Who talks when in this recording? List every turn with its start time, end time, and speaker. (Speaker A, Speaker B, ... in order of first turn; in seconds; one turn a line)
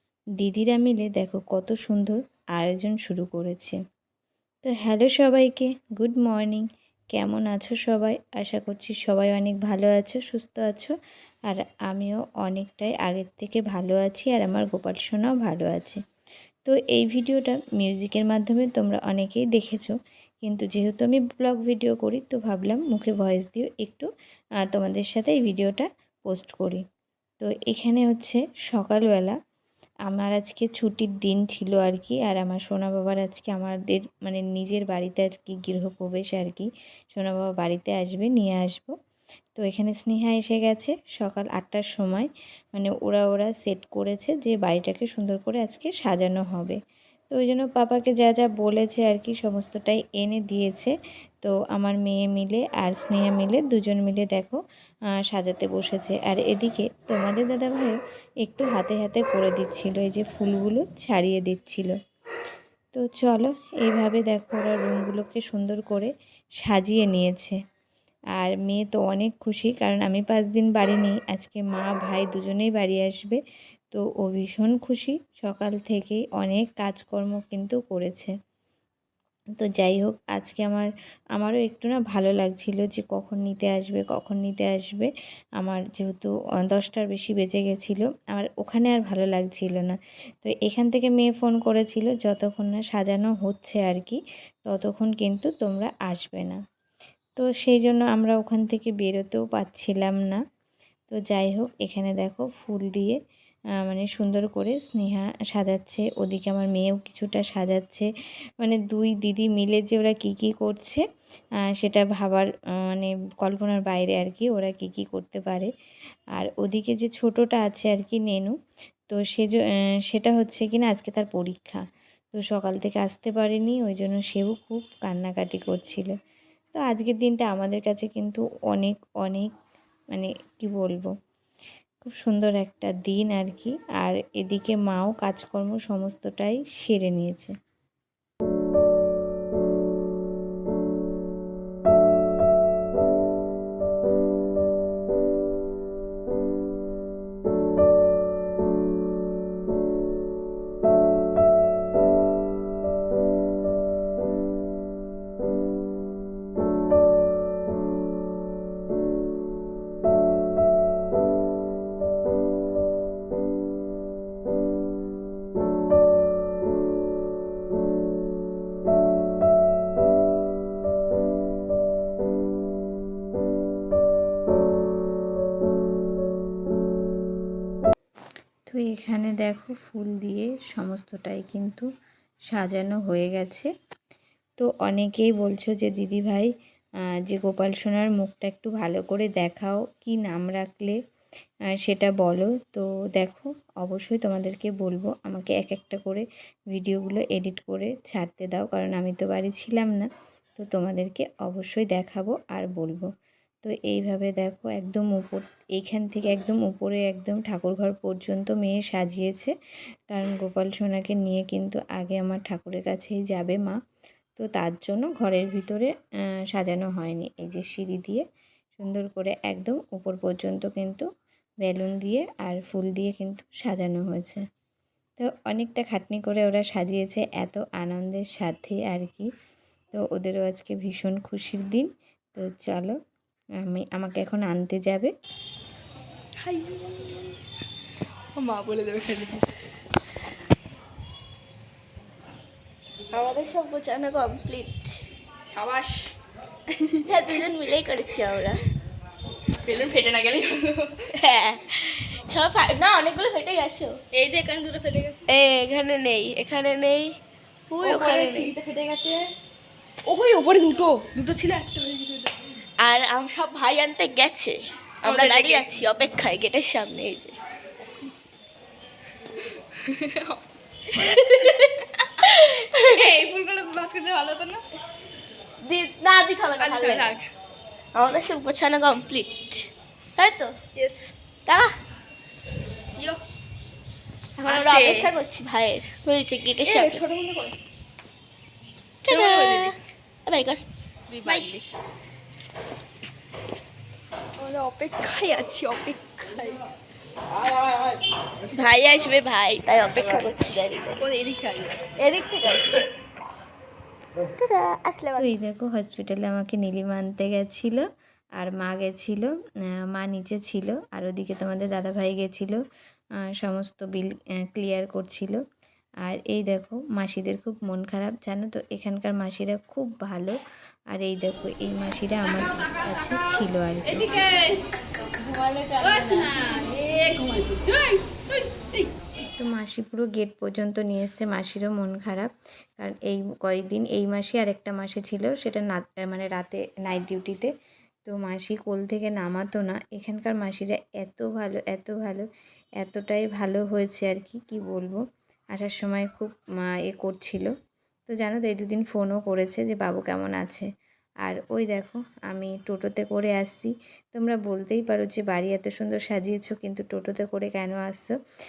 Speaker A: 0.4-3.8
Speaker A: 4.6-10.9
Speaker A: 11.5-16.0
Speaker A: 16.7-24.1
Speaker A: 24.7-26.8
Speaker A: 27.4-29.4
Speaker A: 30.1-39.0
Speaker A: 39.6-46.8
Speaker A: 47.3-54.6
Speaker A: 55.3-62.0
Speaker A: 62.9-67.6
Speaker A: 68.4-73.4
Speaker A: 73.9-78.3
Speaker A: 79.6-85.1
Speaker A: 85.6-96.6
Speaker A: 97.4-100.4
Speaker A: 101.1-103.2
Speaker A: 103.8-108.1
Speaker A: 108.6-111.0
Speaker A: 111.8-115.7
Speaker A: 116.3-118.5
Speaker A: 119.1-126.1
Speaker A: 126.7-129.5
Speaker A: 130.1-131.1
Speaker A: 132.0-137.5
Speaker A: 178.7-181.9
Speaker A: 182.5-183.7
Speaker A: 184.6-186.5
Speaker A: 187.3-191.0
Speaker A: 191.8-203.1
Speaker A: 203.6-209.5
Speaker A: 210.1-213.8
Speaker A: 214.4-215.9
Speaker A: 216.5-218.2
Speaker A: 218.8-221.1
Speaker A: 221.6-224.4
Speaker A: 225.2-229.3
Speaker A: 229.9-233.0
Speaker A: 233.6-235.1
Speaker B: 236.4-237.1
Speaker B: 238.4-239.5
Speaker C: 243.1-245.1
Speaker B: 245.5-246.1
Speaker B: 246.8-247.4
Speaker C: 247.1-248.7
Speaker B: 249.6-251.1
Speaker C: 251.1-254.0
Speaker B: 254.1-255.3
Speaker C: 255.3-257.2
Speaker C: 257.7-258.6
Speaker B: 257.8-259.3
Speaker B: 260.1-262.3
Speaker C: 262.8-267.4
Speaker B: 265.1-265.9
Speaker B: 269.8-270.4
Speaker B: 271.0-271.7
Speaker C: 271.4-273.2
Speaker B: 272.8-274.6
Speaker C: 275.6-277.1
Speaker B: 276.6-277.3
Speaker C: 277.9-280.6
Speaker B: 280.8-281.1
Speaker C: 281.5-281.8
Speaker C: 284.4-287.0
Speaker B: 284.4-285.1
Speaker B: 286.6-287.6
Speaker C: 289.0-290.6
Speaker B: 289.1-289.8
Speaker B: 291.1-291.6
Speaker C: 291.2-291.6
Speaker B: 294.4-296.6
Speaker C: 298.5-301.0
Speaker B: 301.0-301.9
Speaker C: 302.0-302.9
Speaker C: 304.4-305.2
Speaker A: 305.2-309.3
Speaker A: 309.9-312.6
Speaker A: 313.4-315.4
Speaker A: 316.1-320.4
Speaker A: 320.9-324.3
Speaker A: 325.7-326.6
Speaker A: 329.4-337.5
Speaker A: 338.1-342.3
Speaker A: 342.8-347.5
Speaker A: 348.1-350.7
Speaker A: 351.2-358.1